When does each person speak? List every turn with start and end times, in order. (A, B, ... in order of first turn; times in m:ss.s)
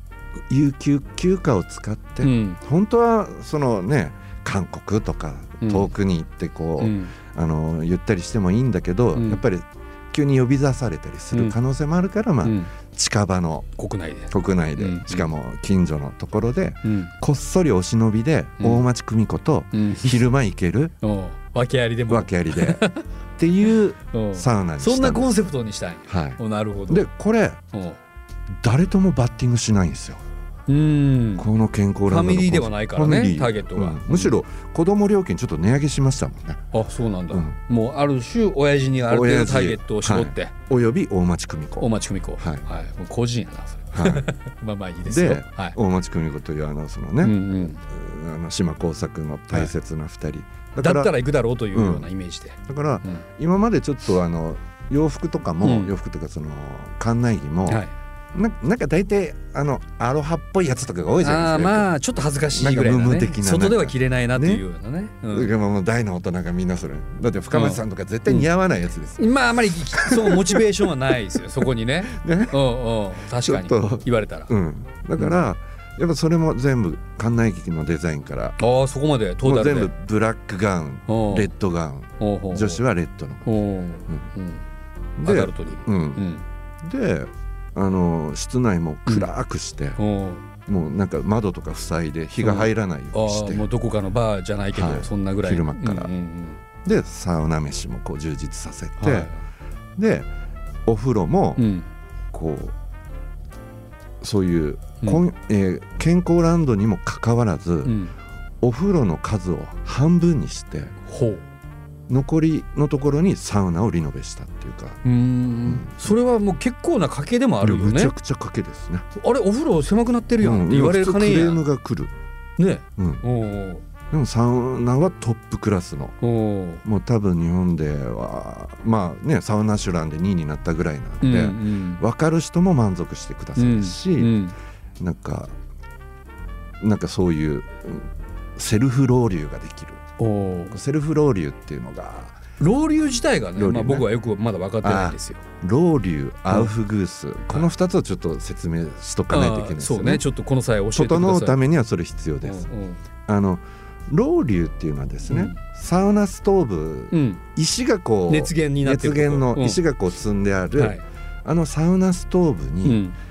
0:00.5-0:13.7 A
0:02.2-0:02.6 B
0:05.6-0:05.9 B
0:06.8-0:07.1 B
0:09.1-0:09.4 B
0:12.4-0:12.7 B
0:13.8-0:15.3 B
0:14.3-0:20.9 A
0:16.8-0:17.1 B
0:18.6-0:18.8 B
0:19.7-0:20.2 B
0:21.0-0:23.0 B
0:22.1-0:22.8 A
0:23.4-0:25.4 A
0:24.1-0:27.0 B
0:26.1-0:27.6 A
0:27.7-0:28.0 B
0:28.6-0:30.2 A
0:30.7-0:31.5 B
0:31.4-0:36.7 A
0:32.1-0:34.4 B
0:36.7-0:40.5 B
0:37.3-0:37.6 A
0:39.0-0:42.6 A
0:41.8-0:45.8 B
0:43.9-0:44.3 A
0:45.0-0:51.1 A
0:47.2-0:47.8 B
0:50.8-0:53.2 B
0:51.7-0:52.1 A
0:52.6-1:01.9 A
0:55.6-0:55.9 B
0:57.7-0:57.9 B
1:01.2-1:05.5 B
1:02.5-1:04.6 A
1:05.3-1:09.3 A
1:07.5-1:08.5 B
1:09.2-1:14.5 B
1:09.9-1:11.1 A
1:12.1-1:12.6 A
1:13.4-1:18.6 A
1:18.6-1:19.9 B
1:19.4-1:23.5 A
1:21.1-1:21.5 B
1:22.2-1:22.8 B
1:23.4-1:24.6 B
1:25.2-1:26.2 A
1:25.2-1:26.4 B
1:26.8-1:30.0 A
1:30.0-1:30.4 B
1:30.6-1:33.7 A
1:32.4-1:36.6 B
1:34.7-1:36.1 A
1:36.8-1:39.3 A
1:39.0-1:39.4 B
1:40.0-1:40.3 A
1:40.8-1:41.7 A
1:41.6-1:41.9 B
1:42.3-1:42.7 A
1:44.2-1:48.0 A
1:47.8-1:48.1 B
1:48.6-1:50.9 A
1:51.0-1:51.4 B
1:52.1-1:55.0 A
1:55.0-1:58.1 B
1:55.7-1:56.1 A
1:57.6-1:59.0 A
1:59.2-2:01.6 B
2:00.4-2:02.1 A
2:02.6-2:03.8 B
2:03.0-2:03.2 A
2:04.1-2:06.2 A
2:06.2-2:06.8 B
2:06.8-2:14.4 A
2:11.2-2:12.0 B
2:13.6-2:14.5 B
2:15.0-2:15.6 A
2:16.8-2:20.0 A
2:20.2-2:20.8 B
2:20.7-2:22.4 A
2:22.6-2:25.4 B
2:23.6-2:24.1 A
2:24.8-2:30.2 A
2:29.3-2:31.6 B
2:30.9-2:32.7 A
2:32.4-2:33.0 B
2:33.3-2:43.0 A
2:35.3-2:35.6 B
2:37.1-2:37.4 B
2:38.3-2:39.8 B
2:40.8-2:41.0 B
2:42.8-2:43.1 B